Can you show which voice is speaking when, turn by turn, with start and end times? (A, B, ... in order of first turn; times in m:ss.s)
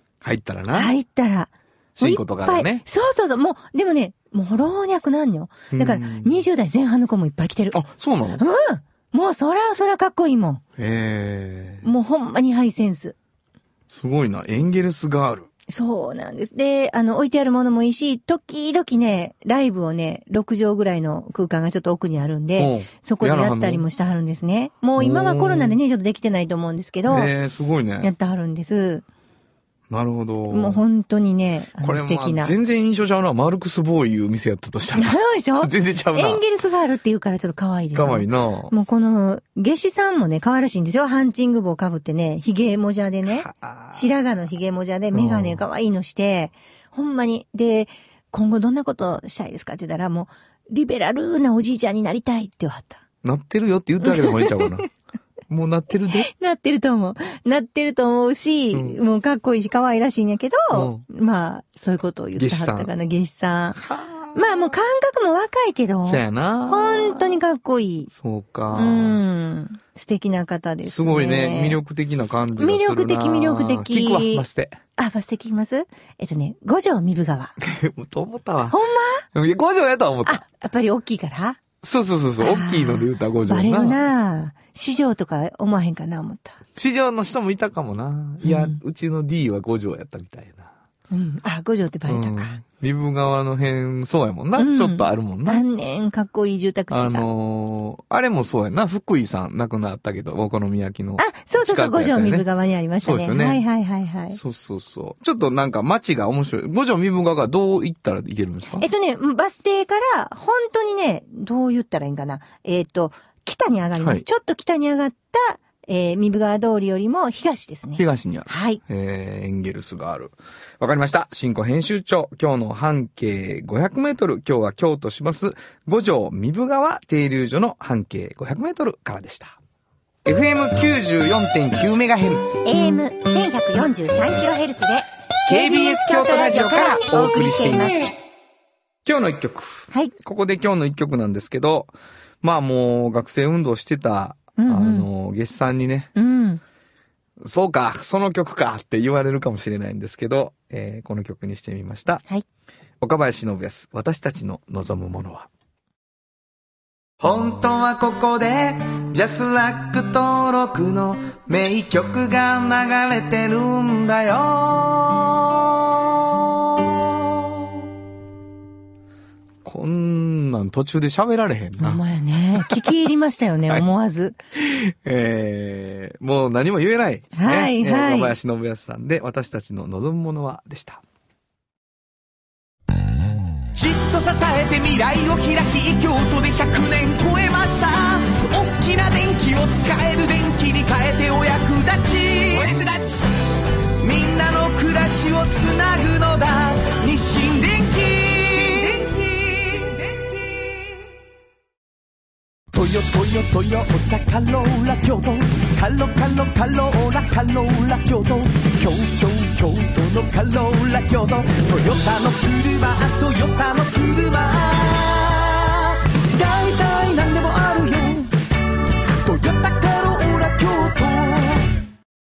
0:00.2-0:00.9 A
0:00.7-0:07.8 B
0:02.0-0:02.8 A
0:05.7-0:06.4 A
0:07.7-0:08.4 A
0:08.4-0:10.6 B
0:10.8-0:11.8 A
0:11.8-0:13.2 B
0:13.9-0:15.5 A
0:15.7-0:27.3 B
0:22.6-0:23.8 A
0:25.0-0:25.8 A
0:27.1-0:28.1 A
0:28.0-0:29.0 B
0:29.9-0:30.8 A
0:30.5-0:32.5 B
0:31.8-0:36.4 A
0:35.0-0:53.0 B
0:38.0-0:38.7 A
0:43.2-0:44.1 A
0:45.1-0:45.6 A
0:53.2-0:54.9 A
0:54.0-0:54.8 B
0:55.5-0:56.3 A
0:56.1-1:03.8 B
0:58.7-0:59.0 A
1:00.7-1:01.0 A
1:02.4-1:02.9 A
1:03.8-1:04.5 A
1:04.3-1:08.1 B
1:06.0-1:07.4 A
1:08.1-1:09.2 A
1:08.7-1:11.8 B
1:10.9-1:14.8 A
1:12.6-1:14.5 B
1:15.0-1:17.5 B
1:17.6-1:18.8 A
1:18.7-1:19.3 B
1:19.3-1:20.4 A
1:20.2-1:21.6 B
1:21.8-1:24.0 A
1:22.4-1:26.6 B
1:26.8-1:30.7 A
1:28.4-1:28.8 B
1:31.1-1:32.6 B
1:32.1-1:35.6 A
1:34.6-1:37.2 B
1:36.9-1:42.5 A
1:41.2-1:44.4 B
1:43.0-1:43.6 A
1:44.3-1:48.9 A
1:48.8-1:58.8 B
1:54.0-1:54.2 A
1:58.0-2:09.5 A
2:10.2-2:12.6 A
2:12.6-2:18.1 B
2:15.5-2:18.1 A
2:19.0-2:26.1 A
2:24.6-2:25.1 B
2:26.2-2:26.6 B
2:27.4-2:32.2 A
2:33.0-2:35.5 A
2:37.2-2:45.6 C
2:49.6-2:52.0 A
2:51.8-2:54.4 B
2:52.6-2:52.9 A
2:54.5-3:01.0 A
2:57.4-2:58.4 B
3:03.7-3:13.3 C
3:14.0-3:20.9 C
3:22.7-3:38.3 C
3:39.2-3:41.7 C